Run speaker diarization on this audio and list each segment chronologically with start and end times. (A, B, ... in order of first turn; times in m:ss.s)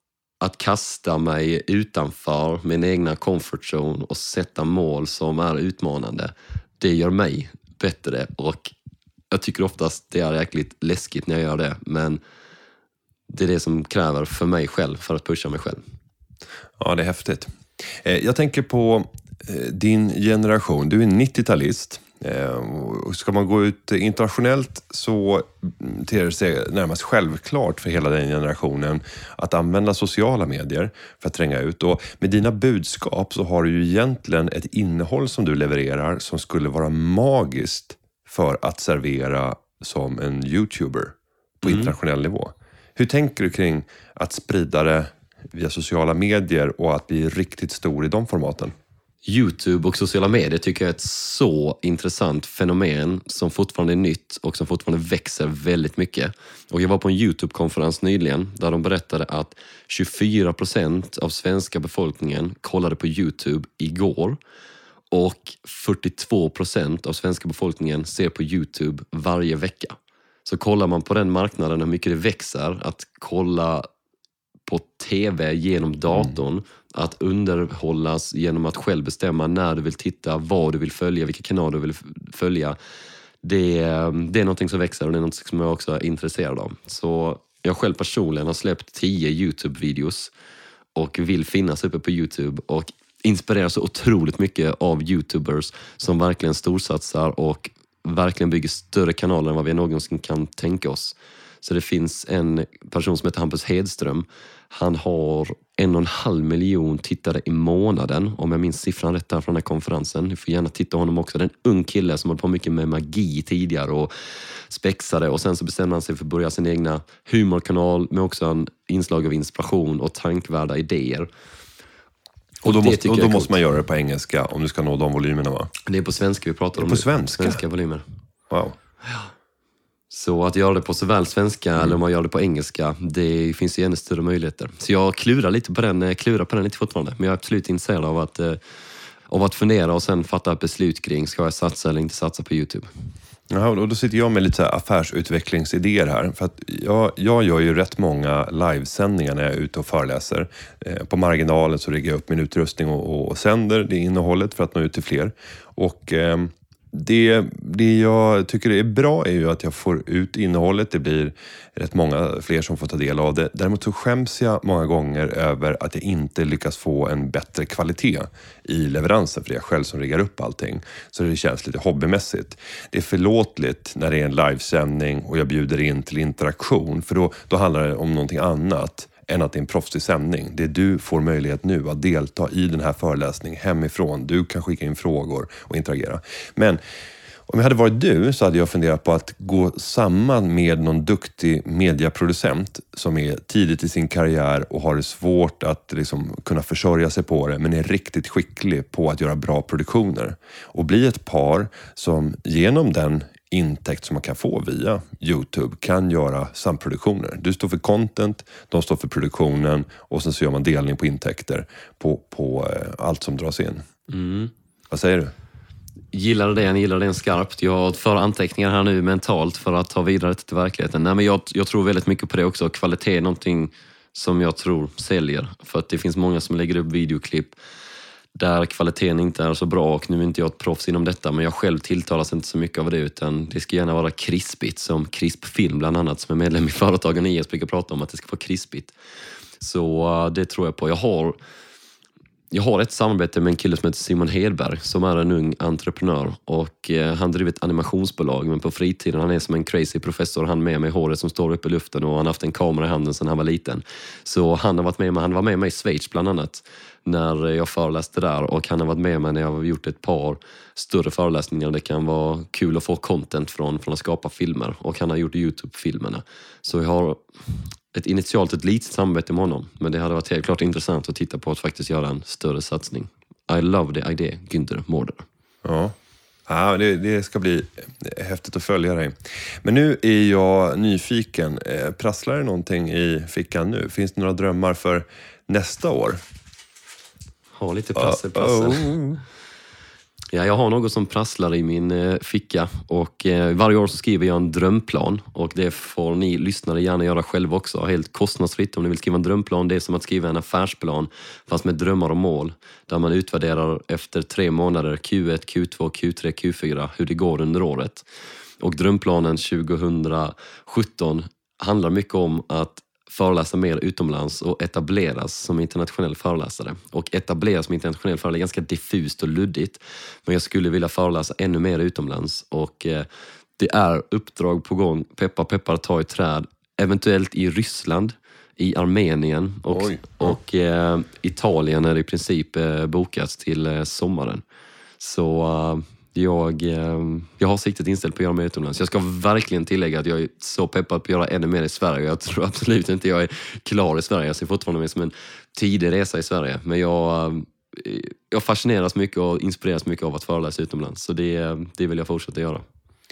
0:00.4-0:08.7 A
0:09.3-0:12.2 A
0:13.3-0:15.8 A
0:16.8-0:48.7 B
0:41.6-0:41.9 A
0:49.3-1:04.4 A
1:05.1-1:13.9 A
1:14.7-1:22.8 A
1:23.4-1:30.3 A
1:31.0-1:54.1 A
1:54.7-2:01.3 A
2:02.6-2:03.6 A
2:02.6-2:05.7 B
2:05.9-2:08.0 A
2:06.8-2:07.6 B
2:08.5-2:08.8 B
2:10.1-2:18.6 A
2:19.3-2:22.9 A
2:23.5-3:06.8 B
3:07.5-3:33.8 B
3:34.1-3:34.5 A
3:34.9-3:35.3 B
3:36.1-3:47.6 A
3:48.4-3:58.9 A
3:59.6-4:01.4 A
4:02.5-4:27.3 A
4:27.9-4:35.2 A
4:35.6-4:36.0 B
4:36.5-4:46.2 B
4:47.6-4:49.1 A
4:48.0-4:49.2 B
4:50.3-5:08.1 A
5:08.6-5:23.1 A
5:23.6-5:34.4 A
5:29.7-5:30.4 B
5:35.0-5:52.6 A